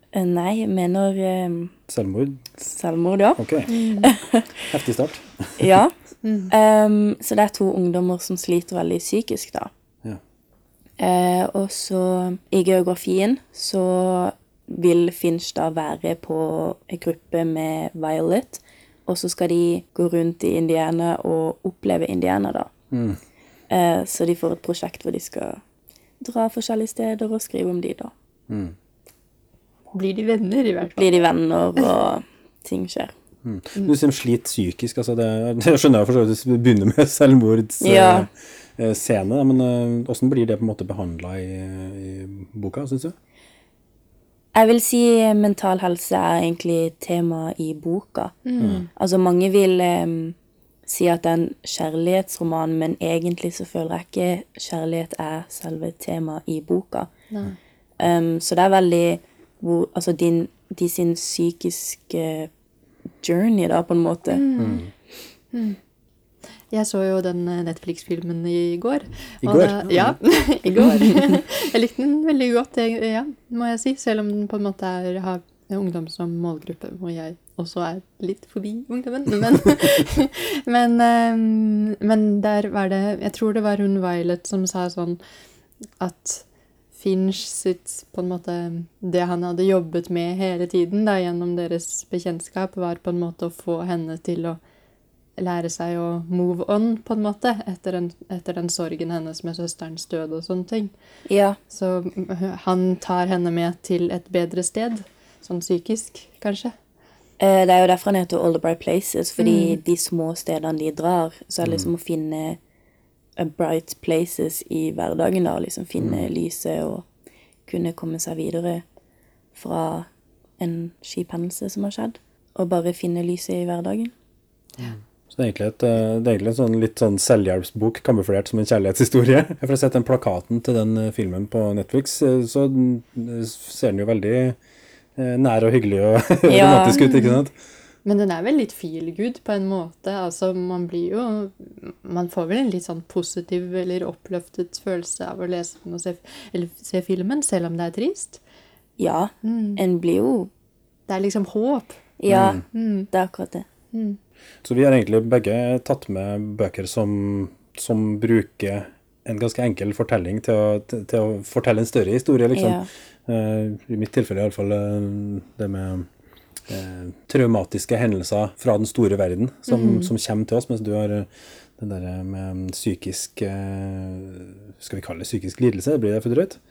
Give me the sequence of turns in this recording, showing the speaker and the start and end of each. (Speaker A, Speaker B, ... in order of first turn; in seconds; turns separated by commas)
Speaker A: 0.1-1.7, Speaker B: 1.9-2.6, Speaker A: 2.6-4.7, Speaker B: 3.4-3.7, Speaker C: 3.7-4.1, Speaker B: 4.7-5.8, Speaker A: 5.6-5.9, Speaker C: 6.2-6.5, Speaker A: 6.5-9.7, Speaker A: 11.0-22.7, Speaker B: 22.9-23.2, Speaker A: 23.7-25.6, Speaker A: 26.2-28.1, Speaker B: 28.5-28.7, Speaker C: 29.9-31.1, Speaker A: 30.9-33.1, Speaker B: 33.4-43.1, Speaker A: 37.8-38.3, Speaker A: 44.5-50.3, Speaker C: 48.4-48.9, Speaker B: 48.6-48.9, Speaker A: 50.9-57.1, Speaker A: 58.0-62.5, Speaker A: 63.2-64.4, Speaker C: 64.3-64.8, Speaker B: 64.6-64.9, Speaker C: 65.5-65.8, Speaker C: 66.7-85.2, Speaker B: 69.4-70.2, Speaker C: 86.0-86.4, Speaker C: 87.0-94.6, Speaker C: 95.4-100.9, Speaker A: 101.3-101.6, Speaker C: 101.7-106.7, Speaker A: 107.4-112.6, Speaker C: 109.4-109.7, Speaker B: 111.6-111.9, Speaker A: 113.4-117.0, Speaker B: 116.0-116.3, Speaker A: 117.7-118.8, Speaker A: 119.5-120.1, Speaker A: 120.6-124.1, Speaker B: 124.8-134.6, Speaker B: 135.2-137.5, Speaker A: 136.5-137.1, Speaker C: 137.0-137.4, Speaker C: 138.0-148.4, Speaker A: 149.0-150.5, Speaker C: 149.4-149.8, Speaker C: 151.1-152.0, Speaker A: 152.2-153.6, Speaker B: 152.3-152.6, Speaker C: 152.8-153.1, Speaker C: 153.9-154.2, Speaker B: 154.6-166.1, Speaker A: 162.5-162.9, Speaker B: 166.7-176.6, Speaker C: 169.7-170.1